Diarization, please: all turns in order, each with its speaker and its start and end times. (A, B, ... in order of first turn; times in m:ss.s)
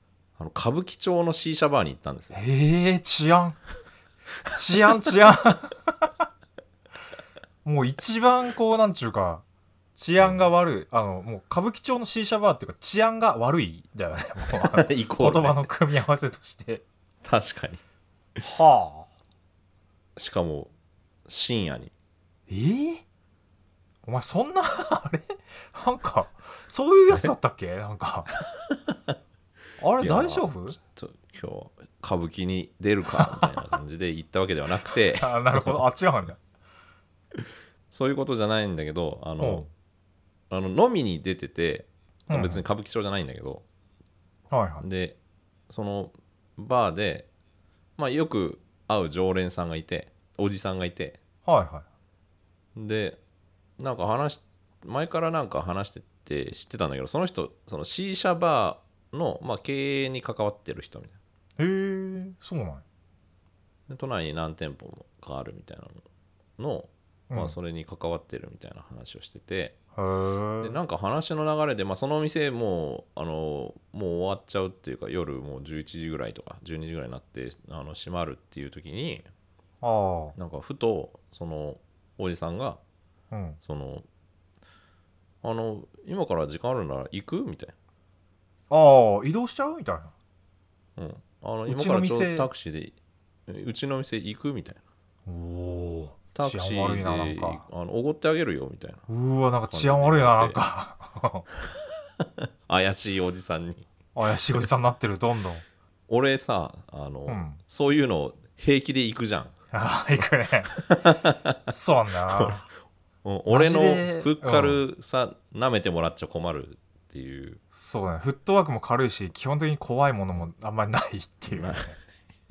0:00.4-0:02.4 A
0:02.3-0:03.6 B
0:04.5-0:06.2 B
0:07.6-0:09.4 B
0:10.0-0:16.8 B
0:10.2-0:10.5 A
0:14.6-0:15.7 A
0:17.2-0:17.8 A
0:18.4-0:19.1 B
0:20.2-0:20.7 A
0:21.3-0:21.9 A
0:22.5-0:23.0 B
0:24.0-0:28.3 B
0:29.8-0:30.8 B
0:30.0-0:35.9 A
0:33.1-0:33.5 B
0:35.2-0:36.4 B
0:37.9-0:39.7 A
0:39.4-0:39.7 B
0:40.5-0:43.6 A
0:42.3-0:42.6 B
0:44.5-0:44.9 B
0:44.8-0:45.2 A
0:45.7-0:47.3 A
0:48.0-0:51.2 A
0:51.5-0:51.8 B
0:52.8-0:53.2 A
0:53.8-1:01.2 A
1:01.6-1:02.8 B
1:03.9-1:06.0 A
1:06.6-1:09.8 A
1:07.3-1:07.6 B
1:10.0-1:10.8 B
1:10.6-1:19.3 A
1:19.8-1:20.4 B
1:20.4-1:22.8 A
1:23.3-1:23.6 B
1:23.6-1:24.1 A
1:25.4-1:27.7 A
1:28.7-1:30.1 B
1:31.0-1:33.0 A
1:31.7-1:32.5 B
1:33.5-1:34.8 A
1:35.3-1:37.7 B
1:36.3-1:39.1 A
1:39.1-1:41.5 B
1:39.7-1:40.6 A
1:42.7-1:43.9 A
1:44.2-1:45.6 B
1:46.1-1:49.5 A
1:47.3-1:47.6 B
1:49.7-1:50.8 B
1:50.9-1:51.5 A
1:51.7-1:52.7 B
1:53.2-1:57.6 A
1:53.5-1:54.8 B
1:57.7-2:02.0 B
2:01.5-2:02.0 A